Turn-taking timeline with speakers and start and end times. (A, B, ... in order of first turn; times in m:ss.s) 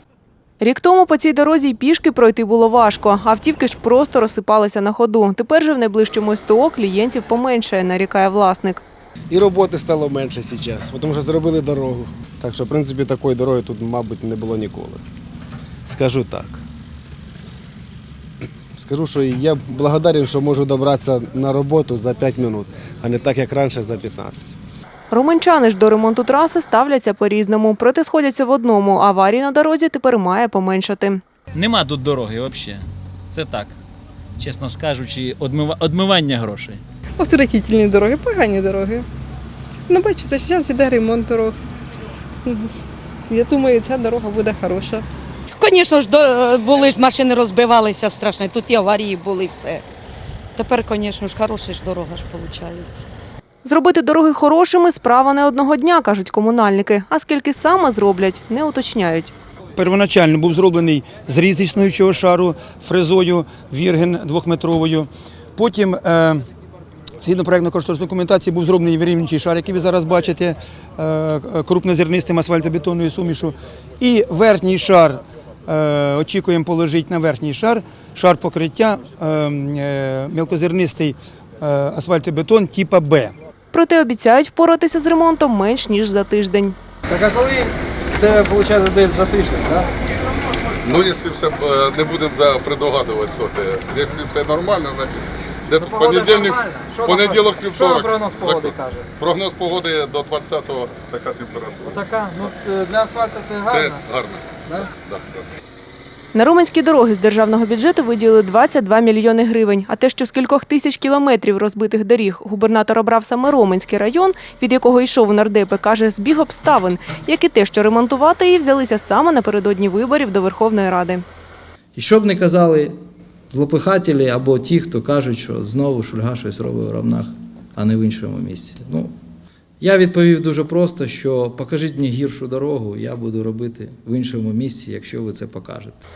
0:00.6-0:08.8 A
0:09.3-0:15.0 B
0:15.8-0:16.6 B
0:18.8-0:24.6 B
0:25.1-0:31.2 A
0:31.5-0:33.8 C
0:34.4-0:36.8 C
0:37.2-0:39.1 D
0:39.9-0:41.6 D
0:42.5-0:45.0 D
0:45.6-0:49.8 E
0:50.6-0:53.1 E
0:53.6-0:59.3 A
0:59.8-1:06.4 F
1:07.2-1:23.4 F
1:23.7-1:26.8 A
1:27.1-1:29.9 G
1:30.8-1:42.1 H
1:35.8-1:39.0 G
1:41.9-1:44.0 G
1:43.7-1:45.4 H
1:46.3-2:01.2 A
2:02.0-2:03.0 I
2:03.5-2:09.2 I
2:09.8-2:16.0 I